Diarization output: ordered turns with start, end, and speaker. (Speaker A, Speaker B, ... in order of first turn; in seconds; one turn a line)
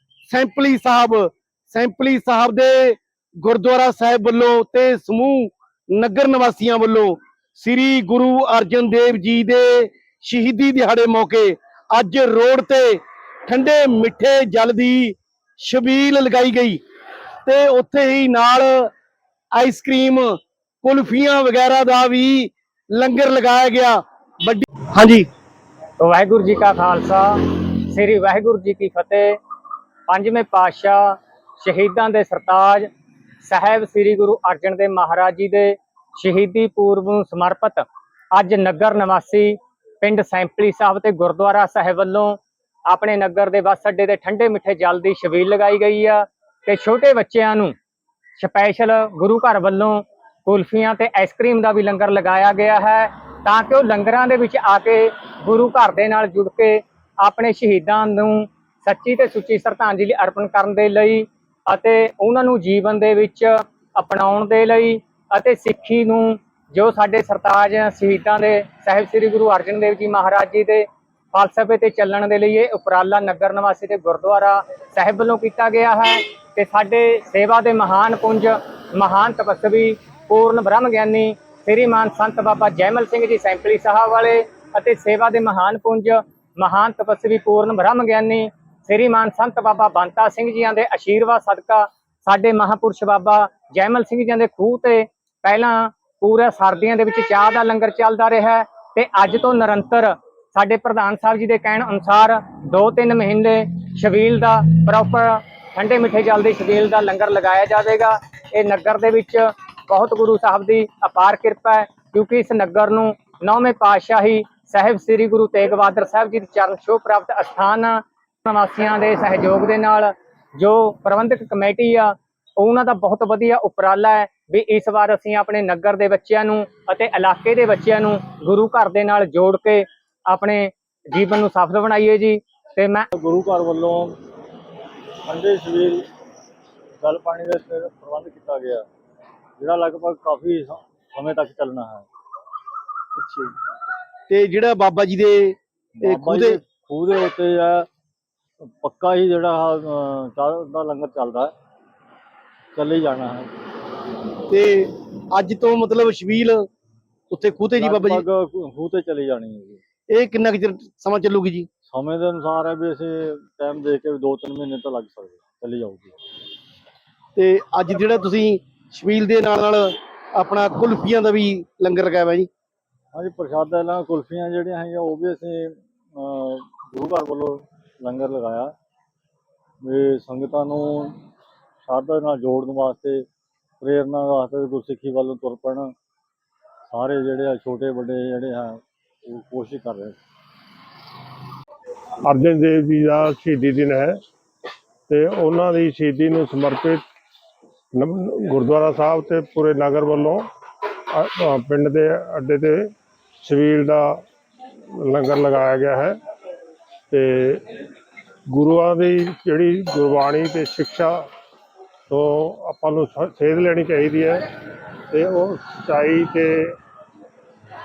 Speaker A: 0.3-16.8
Speaker A: 17.4-18.9
Speaker A: 19.5-25.3
Speaker B: 26.0-29.4
Speaker B: 30.1-32.9
Speaker B: 33.4-47.7
Speaker B: 48.4-133.1
Speaker C: 133.1-134.2
Speaker C: 135.2-136.1
Speaker C: 137.0-138.8
Speaker C: 139.6-142.1
Speaker A: 143.2-143.5
Speaker A: 144.3-146.6
Speaker C: 145.9-147.9
Speaker C: 148.6-151.5
Speaker C: 152.7-153.5
Speaker A: 154.5-156.6
Speaker A: 157.3-158.2
Speaker C: 157.7-159.8
Speaker A: 160.1-161.7
Speaker C: 161.9-166.2
Speaker A: 167.3-172.5
Speaker C: 173.1-178.7
Speaker C: 179.8-181.2
Speaker C: 181.8-183.2
Speaker C: 183.8-185.9
Speaker C: 186.9-190.2
Speaker D: 192.2-194.2
Speaker D: 195.1-197.0
Speaker D: 197.9-200.5
Speaker D: 201.1-204.2
Speaker D: 204.9-206.2
Speaker D: 207.1-207.6
Speaker D: 208.5-211.2
Speaker D: 212.1-214.4
Speaker D: 215.1-216.7